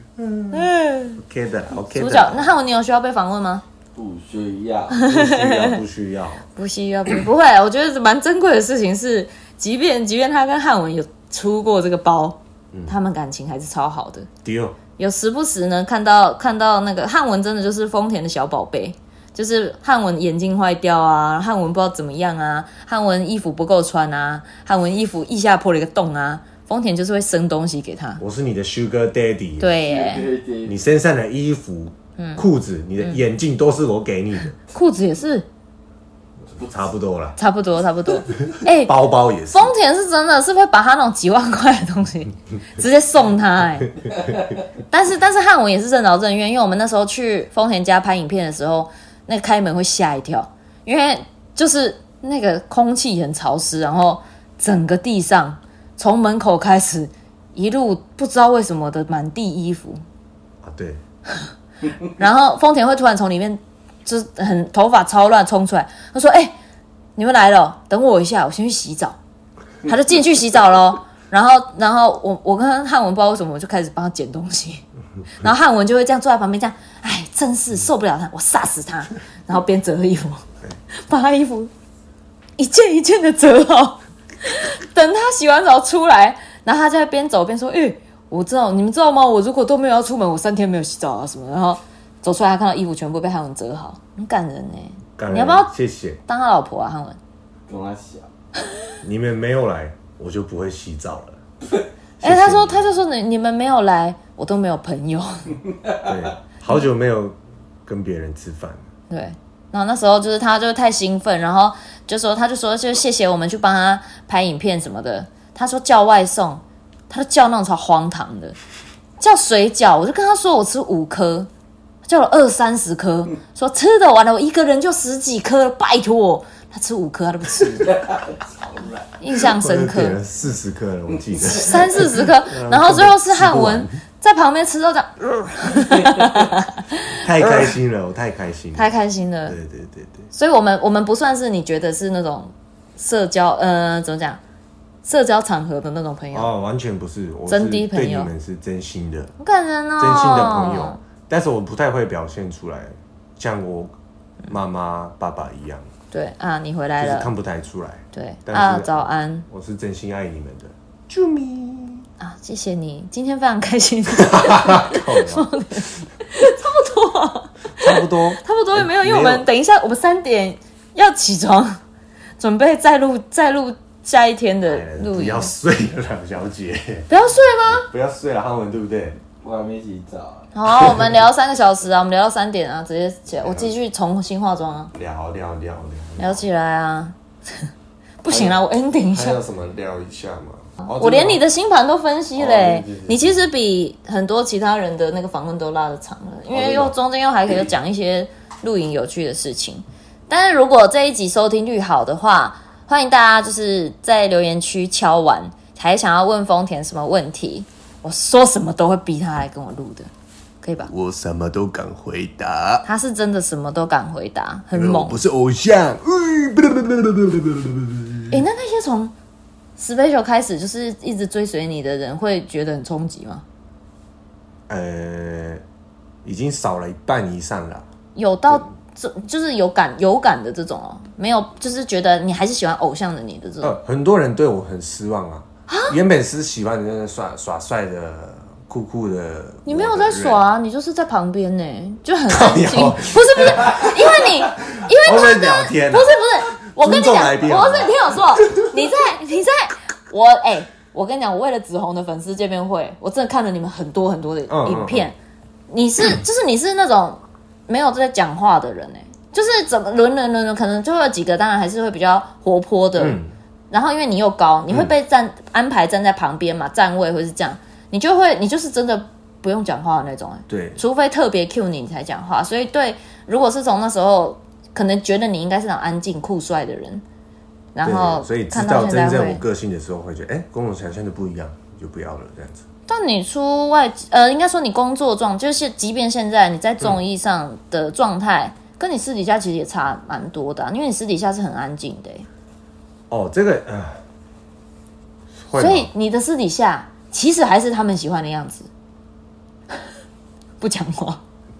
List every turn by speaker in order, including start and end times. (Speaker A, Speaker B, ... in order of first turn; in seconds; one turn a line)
Speaker A: 0.2-2.5
Speaker B: 0.5-1.2
Speaker B: 1.9-3.6
Speaker C: 3.9-5.0
Speaker B: 4.9-5.8
Speaker A: 5.0-6.5
Speaker B: 6.5-14.3
Speaker A: 12.7-13.0
Speaker A: 14.4-14.8
Speaker B: 15.0-28.2
Speaker A: 28.2-29.8
Speaker B: 29.6-30.3
Speaker C: 29.8-30.8
Speaker A: 30.6-34.5
Speaker B: 32.2-32.4
Speaker B: 34.7-35.5
Speaker A: 36.5-37.4
Speaker B: 37.4-44.0
Speaker A: 38.5-39.7
Speaker B: 44.8-60.0
Speaker A: 60.6-61.0
Speaker B: 62.0-66.5
Speaker B: 67.2-69.2
Speaker B: 69.8-81.7
Speaker B: 82.6-95.7
Speaker A: 95.2-96.2
Speaker B: 96.3-97.2
Speaker C: 97.7-98.3
Speaker A: 99.0-101.4
Speaker A: 102.2-102.9
Speaker B: 102.2-105.6
Speaker A: 106.0-108.8
Speaker B: 109.1-118.5
Speaker B: 119.2-121.5
Speaker B: 122.0-128.0
Speaker C: 127.8-129.0
Speaker B: 129.2-130.2
Speaker A: 129.4-134.0
Speaker B: 131.4-137.8
Speaker A: 137.1-138.9
Speaker B: 138.7-139.6
Speaker A: 139.4-140.3
Speaker B: 140.3-144.4
Speaker B: 145.0-146.5
Speaker A: 146.3-149.3
Speaker B: 147.5-148.3
Speaker B: 149.4-151.0
Speaker A: 150.0-153.9
Speaker A: 154.5-155.9
Speaker B: 156.1-157.3
Speaker A: 157.0-162.1
Speaker B: 158.1-159.5
Speaker B: 162.2-171.8
Speaker A: 164.1-165.5
Speaker A: 167.7-169.5
Speaker B: 172.4-175.5
Speaker A: 174.7-177.1
Speaker B: 177.1-177.9
Speaker A: 177.7-179.2
Speaker C: 179.4-180.5
Speaker B: 180.5-184.9
Speaker A: 180.7-181.2
Speaker A: 183.4-183.7
Speaker A: 184.9-186.4
Speaker B: 186.2-187.7
Speaker B: 188.2-189.4
Speaker A: 188.3-191.4
Speaker B: 190.9-210.1
Speaker A: 192.3-193.4
Speaker A: 196.5-196.9
Speaker B: 210.6-210.9
Speaker A: 210.8-212.8
Speaker B: 212.8-215.2
Speaker A: 214.7-218.4
Speaker B: 218.3-219.1
Speaker B: 219.8-223.4
Speaker A: 224.7-225.6
Speaker A: 226.2-227.9
Speaker B: 228.1-233.8
Speaker A: 233.6-240.4
Speaker B: 235.7-235.9
Speaker B: 239.6-255.2
Speaker A: 242.3-248.7
Speaker A: 254.5-255.1
Speaker B: 255.7-277.0
Speaker A: 263.0-263.3
Speaker A: 270.5-270.8
Speaker B: 277.7-279.4
Speaker A: 277.8-282.6
Speaker B: 282.9-292.3
Speaker A: 293.1-294.0
Speaker A: 295.4-295.9
Speaker B: 295.6-298.7
Speaker B: 300.6-301.2